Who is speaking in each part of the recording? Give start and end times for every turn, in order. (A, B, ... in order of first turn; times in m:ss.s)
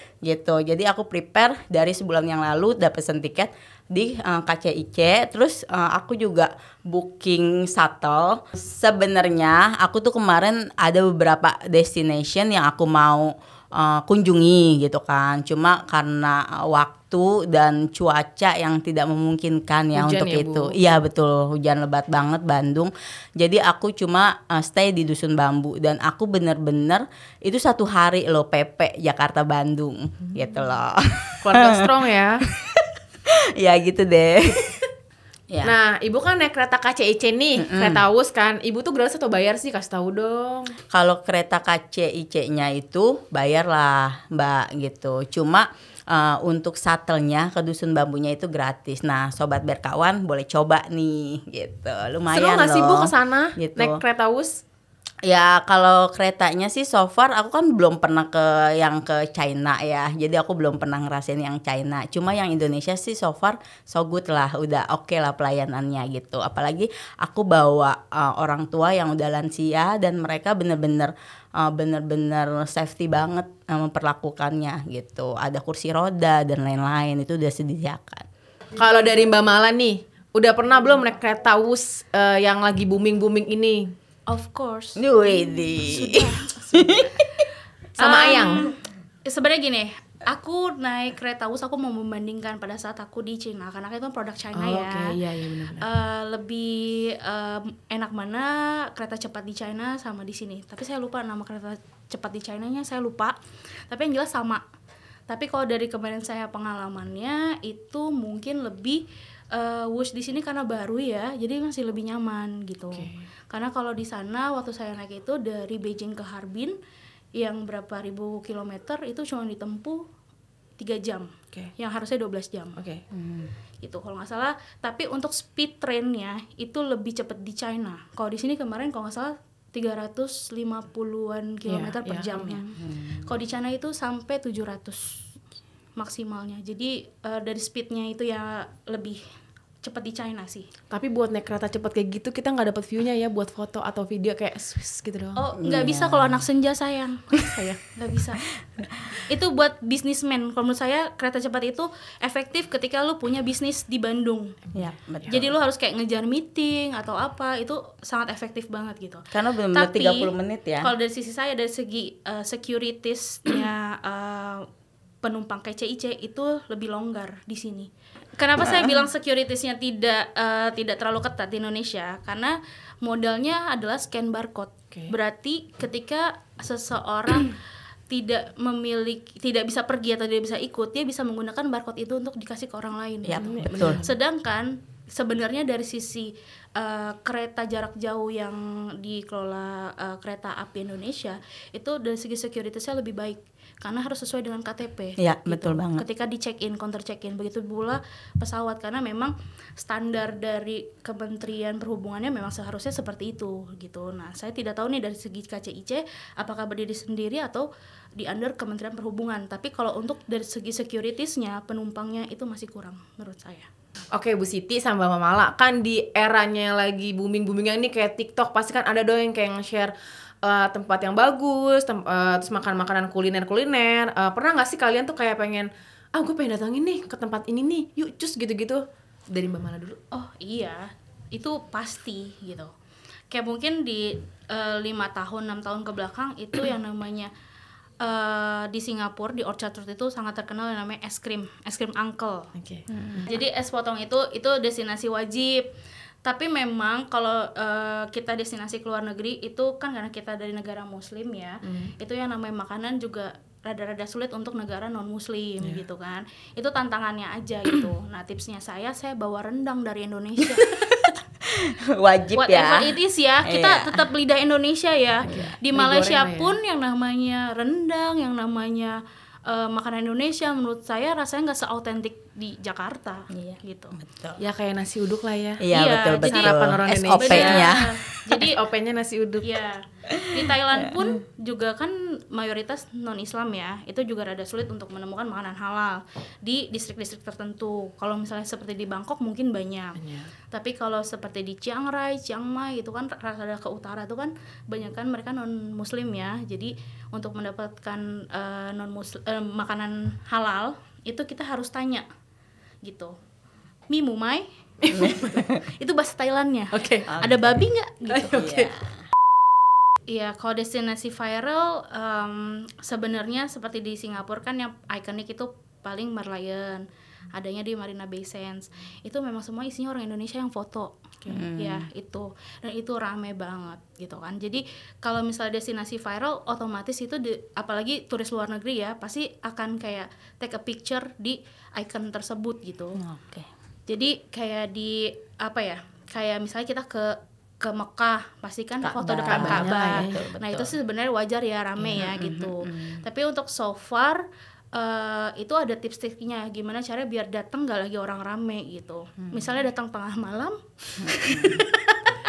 0:00.2-0:31.9 A
0:19.9-0:20.7 B
0:31.4-0:32.4 B
0:32.5-0:34.9 A
0:35.6-0:40.7 B
0:37.6-0:38.0 A
0:40.9-0:54.0 A
0:52.3-0:54.5 B
0:55.2-1:18.3 A
1:18.8-1:23.9 B
1:24.3-1:27.0 C
1:25.0-1:27.2 A
1:28.0-1:28.7 B
1:28.0-1:35.2 C
1:34.5-1:35.9 B
1:35.8-1:43.4 C
1:43.9-1:44.6 C
1:45.3-1:56.7 C
1:52.9-1:53.2 B
1:57.3-2:00.0 C
2:00.8-2:02.8 C
2:02.8-2:03.0 B
2:03.1-2:03.5 A
2:03.8-2:15.2 C
2:11.7-2:12.8 B
2:12.8-2:13.2 A
2:16.0-2:19.2 C
2:19.8-2:20.7 C
2:20.9-2:25.4 B
2:25.4-2:27.4 C
2:25.6-2:26.4 A
2:27.4-2:27.8 B
2:27.9-2:28.5 C
2:29.1-2:34.6 C
2:34.7-2:35.5 A
2:35.2-2:44.6 C
2:39.3-2:40.9 A
2:45.2-2:57.6 C
2:58.1-3:33.7 C
3:03.2-3:04.0 A
3:03.4-3:04.1 B
3:15.2-3:16.0 A
3:34.1-3:50.0 B
3:50.1-3:52.7 C
3:53.3-3:57.3 C
3:58.0-4:02.5 C
4:02.6-4:02.8 B
4:02.9-4:03.3 A
4:03.2-4:05.7 C
4:06.2-4:20.7 C
4:11.6-4:11.9 B
4:20.6-4:24.0 A
4:22.3-4:34.0 C
4:25.3-4:26.5 B
4:33.3-4:34.4 A
4:34.4-4:35.6 B
4:35.6-4:38.2 A
4:35.7-4:38.6 C
4:36.2-4:37.8 B
4:38.3-4:39.6 B
4:39.4-5:02.0 C
4:40.1-4:41.2 A
4:50.0-4:50.3 B
5:02.8-5:03.1 C
5:03.9-5:08.5 C
5:04.8-5:05.4 B
5:04.9-5:05.6 A
5:06.7-5:07.0 B
5:07.1-5:07.6 A
5:08.1-5:08.7 B
5:08.3-5:08.9 A
5:10.1-5:33.0 C
5:21.3-5:21.9 A
5:33.0-5:33.5 A
5:33.9-5:50.6 C
5:38.8-5:40.7 A
5:39.2-5:40.2 B
5:41.8-5:43.0 A
5:51.0-5:51.6 A
5:51.1-5:51.6 C